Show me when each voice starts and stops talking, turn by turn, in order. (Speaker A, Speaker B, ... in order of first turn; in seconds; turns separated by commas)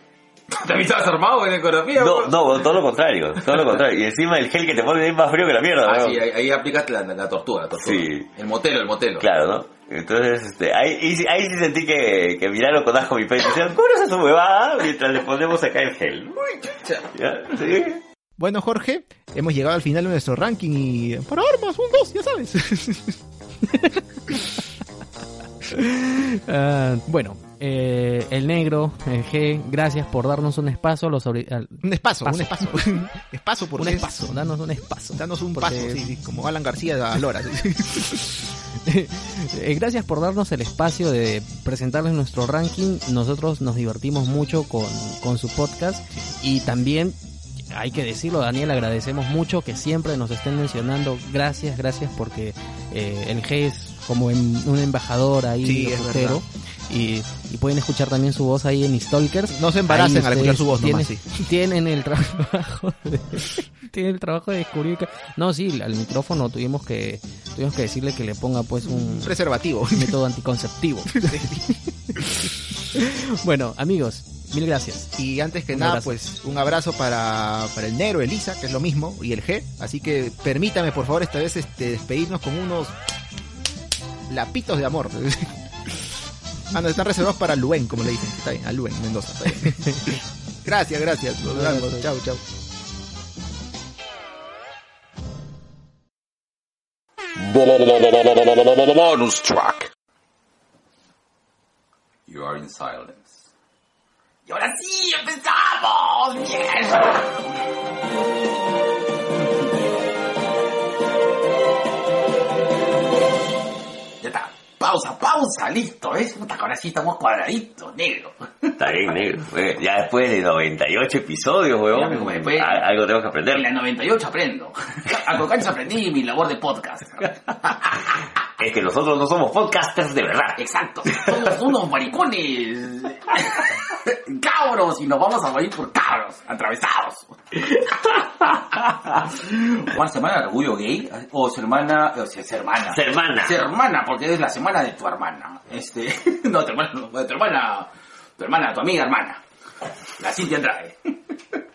Speaker A: 0.5-2.5, Speaker B: 1.9-6.2, Speaker A: 5.8-9.2, Speaker B: 7.8-8.3, Speaker B: 9.2-16.4, Speaker A: 16.4-17.1, Speaker B: 17.1-18.0, Speaker C: 18.4-23.2, Speaker D: 25.7-33.0, Speaker C: 31.8-34.1, Speaker D: 33.8-36.0, Speaker C: 35.1-38.4, Speaker D: 38.8-47.2, Speaker D: 47.7-71.5, Speaker C: 55.6-56.4, Speaker C: 59.5-61.4, Speaker C: 68.8-70.1, Speaker C: 71.2-72.2, Speaker D: 72.9-75.1, Speaker C: 75.2-82.9, Speaker D: 75.7-76.2, Speaker C: 84.3-85.5, Speaker C: 86.7-92.4, Speaker D: 91.5-92.0, Speaker A: 97.4-99.9, Speaker A: 102.3-103.4, Speaker A: 104.5-107.5, Speaker A: 114.2-118.9, Speaker B: 118.8-123.7, Speaker A: 121.9-122.8, Speaker A: 123.5-128.1, Speaker B: 128.6-131.4, Speaker A: 130.6-149.4, Speaker B: 142.9-143.6, Speaker A: 150.2-151.1